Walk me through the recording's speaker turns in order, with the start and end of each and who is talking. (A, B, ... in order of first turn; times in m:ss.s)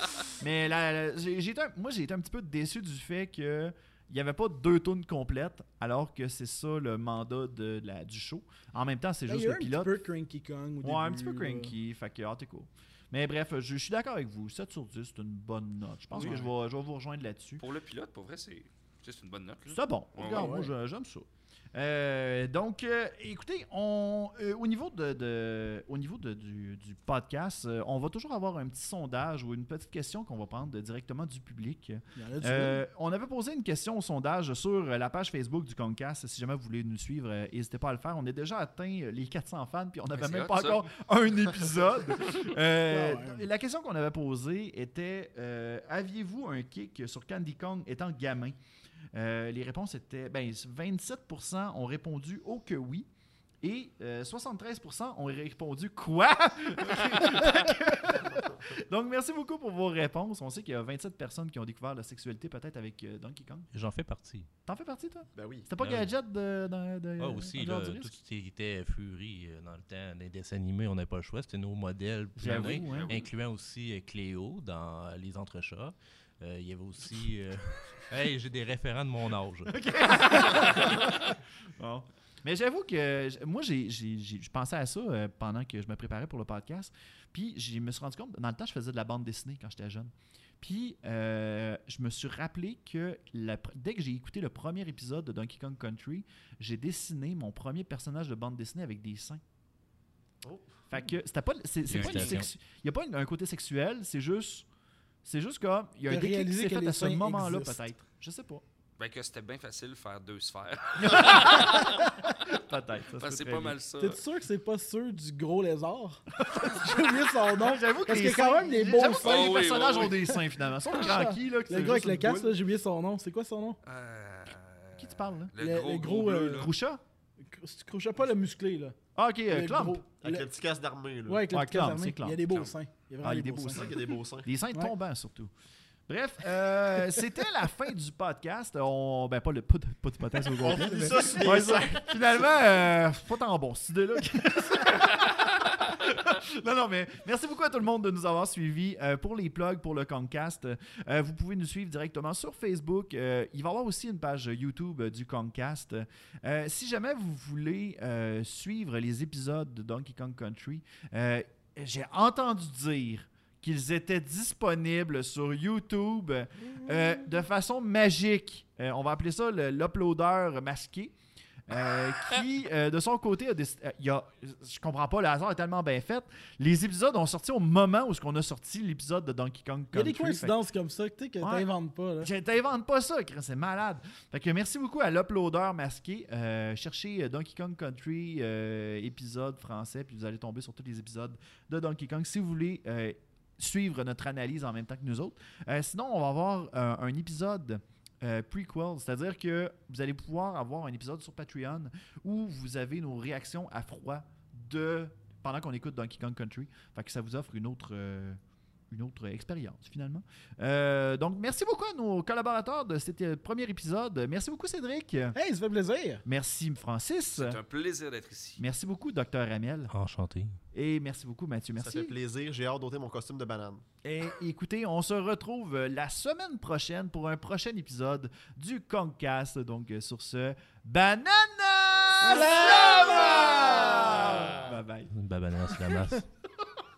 0:00.4-0:10.0 A
0:09.3-0:11.7 B
0:10.8-0:17.6 A
0:16.1-0:16.4 C
0:16.2-0:16.4 B
0:17.6-0:20.5 C
0:19.7-0:48.6 A
0:20.2-0:20.7 B
0:32.2-0:32.8 B
0:40.1-0:40.9 C
0:42.9-0:43.4 B
0:49.1-0:53.1 A
0:53.6-1:03.7 A
0:57.1-0:57.4 C
1:03.7-1:04.5 D
1:04.6-1:08.2 A
1:05.3-1:05.7 E
1:05.8-1:06.1 D
1:07.2-1:21.1 D
1:12.4-1:13.2 A
1:12.4-1:13.3 C
1:19.7-1:21.2 A
1:20.5-1:20.9 C
1:21.8-1:39.4 A
1:40.4-1:40.8 E
1:40.9-1:44.6 A
1:41.9-1:42.5 D
1:41.9-1:42.4 C
1:45.2-1:48.6 A
1:46.1-1:47.8 B
1:49.0-1:52.0 C
1:51.0-1:53.8 A
1:51.7-1:52.0 B
1:53.1-1:54.2 C
1:54.0-1:59.6 B
1:56.4-2:02.6 A
1:59.2-2:00.2 C
2:00.9-2:03.8 B
2:03.8-2:06.7 C
2:05.0-2:05.5 A
2:05.6-2:06.7 B
2:06.5-2:07.0 A
2:07.4-2:09.0 B
2:09.1-2:10.0 A
2:09.5-2:10.4 B
2:10.2-2:11.5 E
2:11.3-2:13.9 B
2:11.5-2:12.4 A
2:12.5-2:12.8 C
2:13.2-2:15.5 A
2:13.7-2:14.5 E
2:16.1-2:51.1 A
2:20.6-2:22.5 E
2:51.7-3:00.6 A
2:59.9-3:02.3 B
3:01.4-3:01.7 A
3:02.2-3:28.4 A
3:28.9-3:35.4 A
3:35.3-3:36.2 B
3:36.2-3:37.6 A
3:37.3-3:38.6 C
3:38.6-3:39.9 A
3:39.9-3:40.6 D
3:40.7-3:42.2 A
3:41.8-3:43.8 E
3:44.0-3:55.1 A
3:52.2-3:54.3 B
3:55.1-3:56.2 D